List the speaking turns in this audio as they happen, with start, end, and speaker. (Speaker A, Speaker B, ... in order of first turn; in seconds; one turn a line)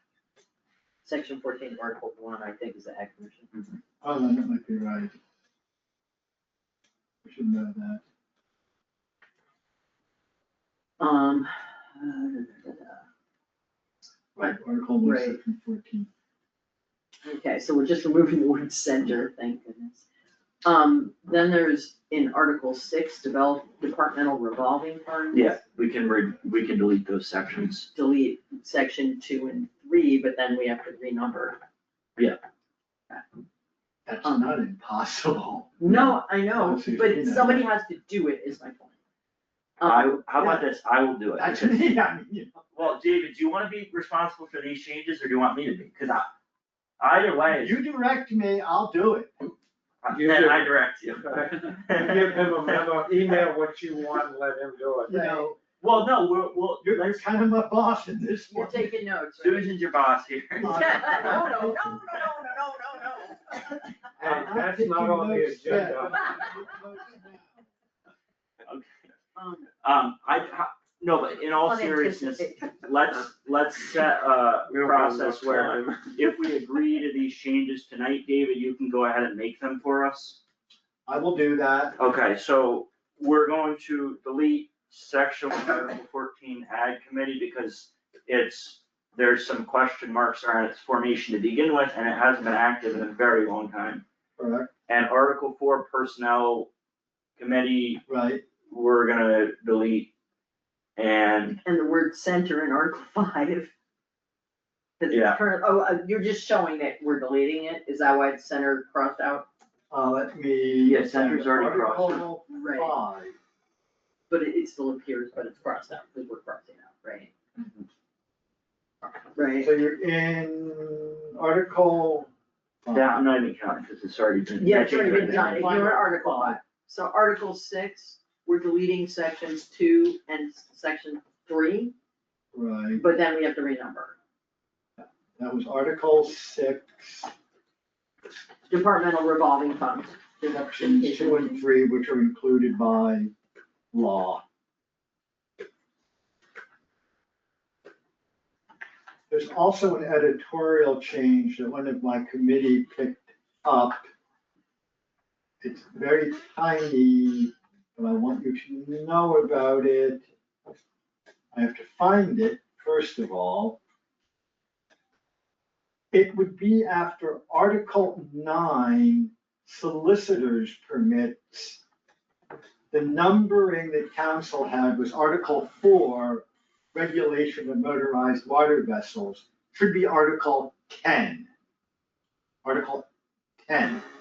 Speaker A: 1.0-3.5
Speaker B: 4.0-5.1
Speaker B: 7.2-8.0
Speaker A: 11.0-13.0
Speaker B: 14.3-16.1
Speaker A: 14.4-15.4
Speaker A: 17.2-20.0
Speaker A: 20.6-25.6
Speaker C: 25.3-27.9
Speaker A: 27.9-31.6
Speaker B: 34.0-37.6
Speaker A: 35.8-38.9
Speaker A: 39.8-40.2
Speaker C: 39.8-42.0
Speaker B: 40.4-40.7
Speaker B: 41.4-42.6
Speaker C: 42.7-46.3
Speaker C: 47.0-47.8
Speaker B: 47.6-49.3
Speaker C: 50.0-52.9
Speaker D: 50.1-50.7
Speaker D: 51.2-55.2
Speaker B: 55.1-55.6
Speaker C: 55.8-57.4
Speaker B: 56.8-58.9
Speaker A: 58.5-59.8
Speaker C: 59.4-61.2
Speaker B: 60.6-61.9
Speaker A: 60.6-63.9
Speaker D: 64.2-66.3
Speaker B: 64.2-67.7
Speaker A: 66.2-66.4
Speaker A: 69.3-69.7
Speaker C: 69.8-80.4
Speaker A: 71.6-73.0
Speaker D: 74.7-76.0
Speaker B: 81.1-81.9
Speaker C: 82.0-94.0
Speaker B: 94.4-94.7
Speaker C: 94.9-96.7
Speaker C: 97.4-98.0
Speaker B: 98.1-98.4
Speaker C: 98.7-100.1
Speaker C: 101.0-101.6
Speaker A: 101.6-103.7
Speaker A: 105.0-109.5
Speaker C: 105.1-105.4
Speaker B: 109.9-113.3
Speaker C: 110.8-112.2
Speaker A: 112.5-112.9
Speaker A: 114.3-117.4
Speaker C: 117.6-117.8
Speaker A: 119.3-119.7
Speaker B: 119.6-122.3
Speaker B: 122.8-123.2
Speaker C: 122.9-125.8
Speaker A: 124.6-131.9
Speaker B: 125.0-126.6
Speaker B: 132.5-133.0
Speaker A: 132.9-134.2
Speaker B: 135.4-137.3
Speaker A: 138.7-141.6
Speaker B: 140.4-143.3
Speaker B: 143.9-144.4
Speaker B: 149.3-154.1
Speaker B: 155.6-160.2
Speaker B: 161.5-163.8
Speaker B: 166.1-171.8
Speaker B: 172.9-181.5
Speaker B: 182.6-183.1
Speaker B: 183.7-184.0